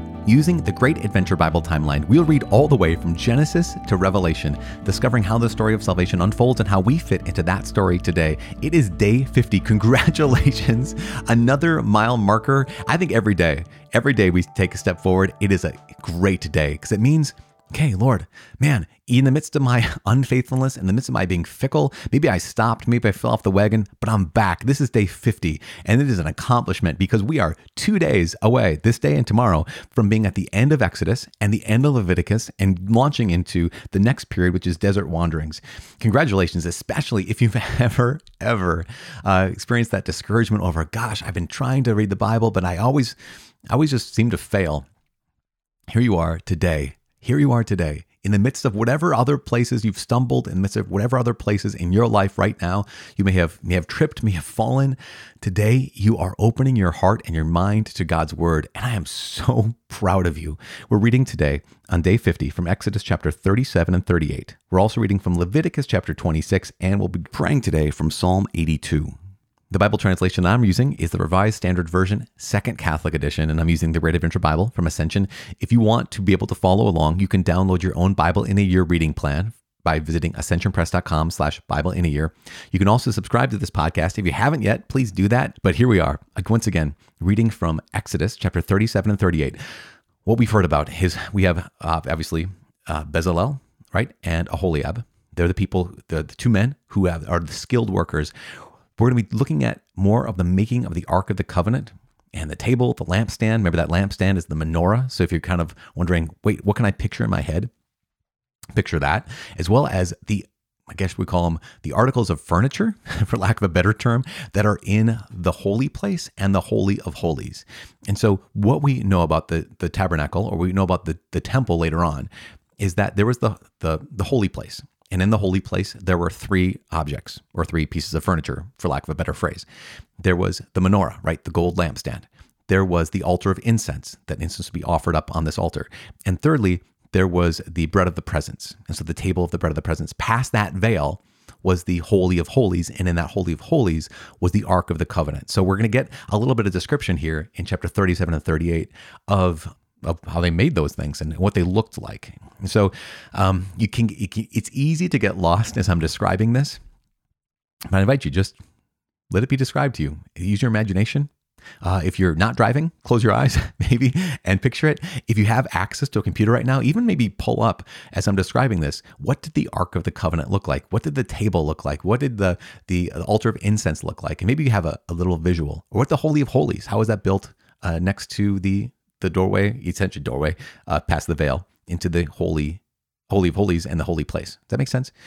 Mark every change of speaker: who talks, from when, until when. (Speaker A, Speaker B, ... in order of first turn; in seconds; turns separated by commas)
Speaker A: 0.2-43.1, Speaker A: 43.7-44.9, Speaker A: 45.9-69.1, Speaker A: 69.7-89.6, Speaker A: 90.2-98.3, Speaker A: 99.0-107.7, Speaker A: 108.7-122.3, Speaker A: 122.8-129.7, Speaker A: 130.2-156.8, Speaker A: 157.9-158.6, Speaker A: 159.3-161.3, Speaker A: 161.8-185.1